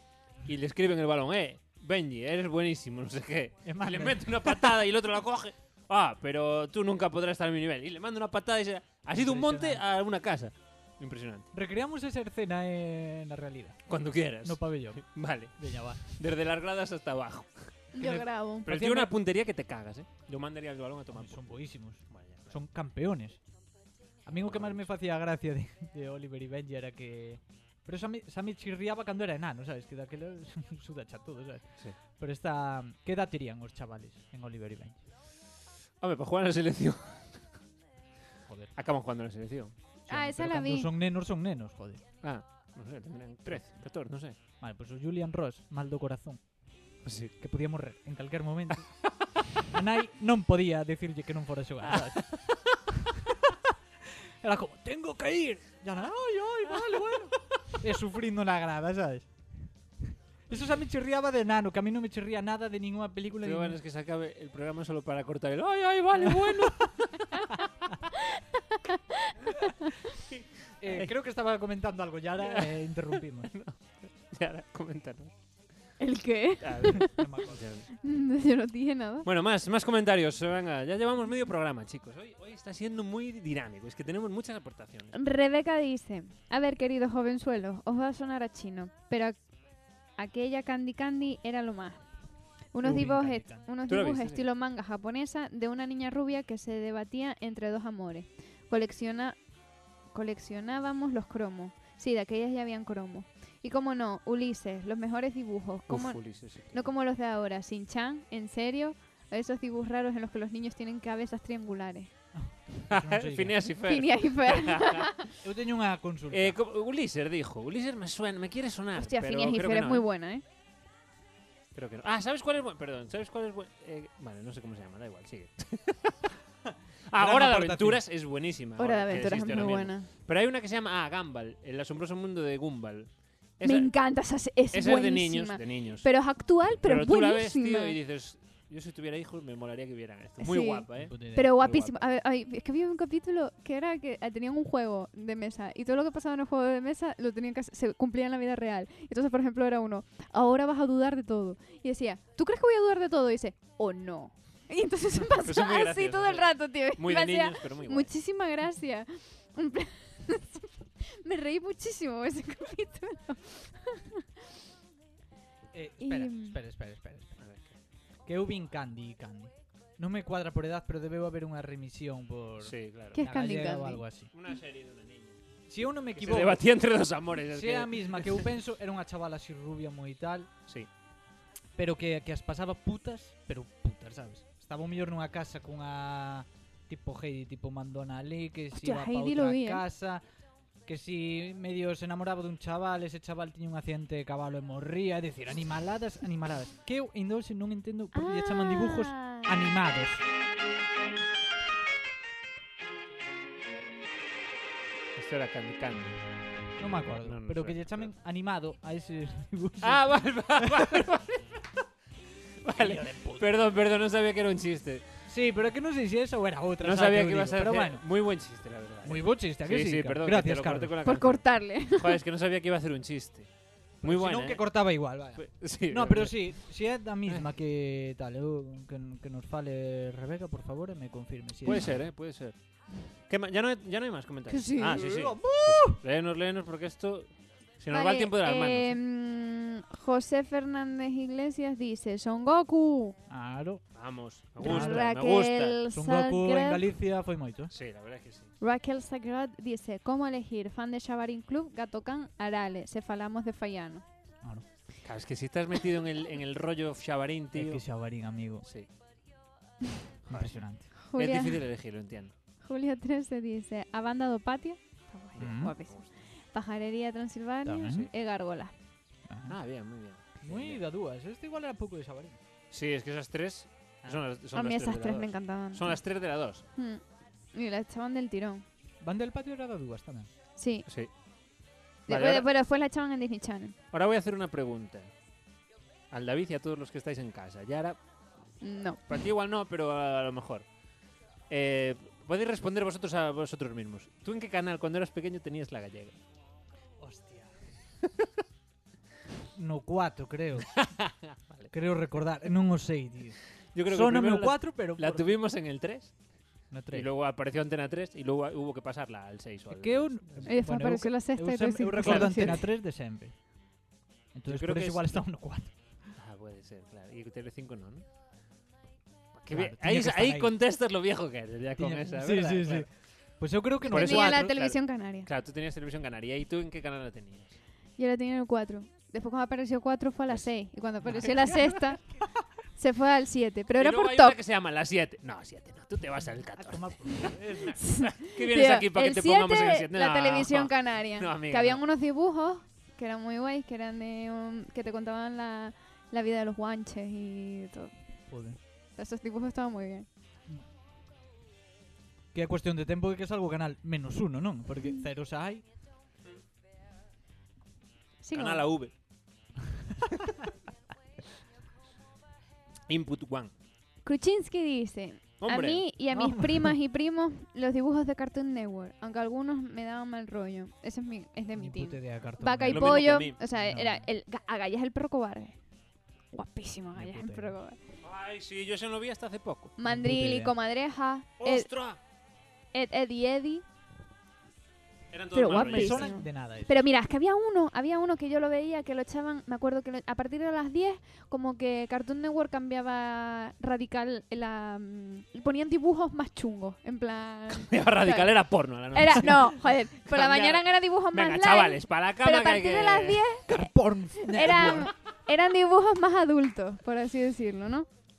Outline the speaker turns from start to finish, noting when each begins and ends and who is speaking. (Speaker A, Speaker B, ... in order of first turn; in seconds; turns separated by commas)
Speaker A: 0.4-11.5, Speaker B: 3.6-4.8, Speaker B: 9.1-9.8, Speaker B: 11.5-13.8, Speaker A: 13.9-21.5, Speaker B: 14.4-16.0, Speaker C: 17.9-18.7, Speaker B: 18.6-19.1, Speaker B: 21.1-23.4, Speaker A: 22.1-22.6, Speaker B: 24.2-35.0, Speaker A: 24.3-24.9, Speaker A: 36.0-37.5, Speaker B: 38.5-38.7, Speaker A: 38.7-39.7, Speaker C: 40.1-40.9, Speaker B: 40.1-42.0, Speaker A: 42.2-44.4, Speaker B: 43.5-43.7, Speaker B: 44.6-46.4, Speaker A: 47.0-47.4, Speaker B: 47.4-49.0, Speaker B: 49.7-52.4, Speaker A: 51.9-52.7, Speaker B: 53.2-59.7, Speaker B: 60.5-63.8, Speaker A: 63.4-67.3, Speaker B: 66.3-66.7, Speaker C: 68.3-69.3, Speaker A: 70.3-71.1, Speaker B: 70.8-73.5, Speaker A: 72.4-75.3, Speaker C: 76.0-77.2, Speaker A: 76.6-77.9, Speaker B: 77.0-77.7, Speaker C: 78.0-79.3, Speaker A: 79.2-85.2, Speaker C: 85.1-89.4, Speaker C: 90.2-92.0, Speaker C: 92.7-99.4, Speaker B: 92.8-93.7, Speaker A: 92.9-94.4, Speaker C: 100.1-112.1, Speaker A: 105.9-106.9, Speaker B: 112.3-113.6, Speaker A: 112.9-115.1, Speaker C: 113.9-115.1, Speaker B: 115.4-116.6, Speaker A: 116.3-120.0, Speaker C: 119.0-120.4, Speaker A: 121.7-126.2, Speaker B: 126.7-128.0, Speaker A: 127.1-142.0, Speaker C: 128.8-130.1, Speaker C: 133.6-138.0, Speaker C: 140.4-164.1, Speaker B: 141.0-141.5, Speaker A: 155.4-158.1, Speaker B: 165.7-167.4, Speaker C: 166.0-166.6, Speaker A: 167.4-167.7, Speaker B: 168.2-174.3, Speaker A: 172.6-173.2, Speaker C: 173.1-174.0, Speaker A: 174.3-175.4, Speaker B: 175.7-176.6, Speaker A: 176.1-178.4, Speaker B: 177.5-180.5, Speaker B: 181.8-190.2, Speaker C: 188.7-189.8, Speaker B: 190.8-200.2, Speaker C: 198.1-199.7, Speaker A: 205.1-206.2, Speaker B: 206.8-211.0, Speaker A: 207.2-208.1, Speaker A: 209.8-211.6, Speaker A: 212.6-215.0, Speaker B: 212.8-213.5, Speaker B: 215.2-218.0, Speaker A: 216.8-223.5, Speaker B: 219.0-220.9, Speaker C: 221.0-222.2, Speaker A: 224.0-226.7, Speaker B: 224.0-231.9, Speaker A: 231.6-239.0, Speaker C: 234.5-235.0, Speaker B: 234.8-236.0, Speaker C: 237.9-243.2, Speaker B: 243.3-243.8, Speaker A: 243.9-245.8, Speaker B: 244.6-245.1, Speaker C: 244.6-246.8, Speaker B: 245.9-247.7, Speaker A: 247.7-248.5, Speaker C: 248.6-254.0, Speaker A: 255.0-257.8, Speaker B: 257.5-258.7, Speaker A: 258.6-258.9, Speaker A: 260.2-262.3, Speaker B: 260.3-260.9, Speaker C: 261.0-261.6, Speaker C: 262.6-268.7, Speaker A: 265.3-266.1, Speaker B: 265.4-265.7, Speaker B: 267.6-268.1, Speaker B: 269.3-269.6, Speaker A: 269.5-270.8, Speaker B: 270.4-272.4, Speaker A: 272.7-276.6, Speaker C: 274.5-276.2, Speaker C: 276.7-277.0, Speaker C: 277.5-278.6, Speaker B: 279.0-280.3, Speaker C: 280.6-280.9, Speaker A: 280.9-281.1, Speaker C: 282.1-283.7, Speaker A: 282.1-282.5, Speaker A: 283.9-285.1, Speaker A: 286.1-288.0, Speaker C: 288.6-289.0, Speaker A: 289.1-290.6, Speaker A: 291.5-296.2, Speaker B: 297.0-297.6, Speaker B: 299.5-300.8, Speaker A: 300.7-301.7, Speaker B: 301.7-305.4, Speaker A: 303.7-306.1, Speaker B: 306.7-307.1, Speaker A: 306.9-310.5, Speaker B: 309.7-313.4, Speaker C: 310.4-312.6, Speaker A: 312.0-312.6, Speaker B: 314.3-316.1, Speaker A: 314.5-315.2, Speaker A: 316.2-318.0, Speaker A: 319.3-322.9, Speaker B: 319.5-320.5, Speaker B: 321.8-324.5, Speaker C: 323.8-325.3, Speaker A: 323.9-327.6, Speaker C: 328.0-332.0, Speaker A: 331.0-331.3, Speaker B: 331.0-331.5, Speaker C: 332.8-334.4, Speaker A: 333.8-341.8, Speaker B: 336.2-337.8, Speaker C: 337.8-347.9, Speaker B: 348.3-348.6, Speaker C: 348.9-350.1, Speaker B: 352.3-355.6, Speaker C: 358.2-358.7, Speaker A: 358.3-358.9, Speaker A: 362.9-363.5, Speaker C: 364.0-375.6, Speaker A: 365.4-365.9, Speaker B: 366.1-366.7, Speaker B: 371.6-374.0, Speaker A: 372.7-373.4, Speaker C: 376.3-377.8, Speaker B: 376.9-377.6, Speaker A: 378.0-379.7, Speaker C: 379.8-381.7, Speaker B: 379.8-380.5, Speaker A: 381.4-382.0, Speaker C: 382.7-383.6, Speaker A: 385.1-386.1, Speaker C: 385.3-407.9, Speaker B: 385.5-386.8, Speaker A: 397.5-403.2, Speaker B: 403.5-404.9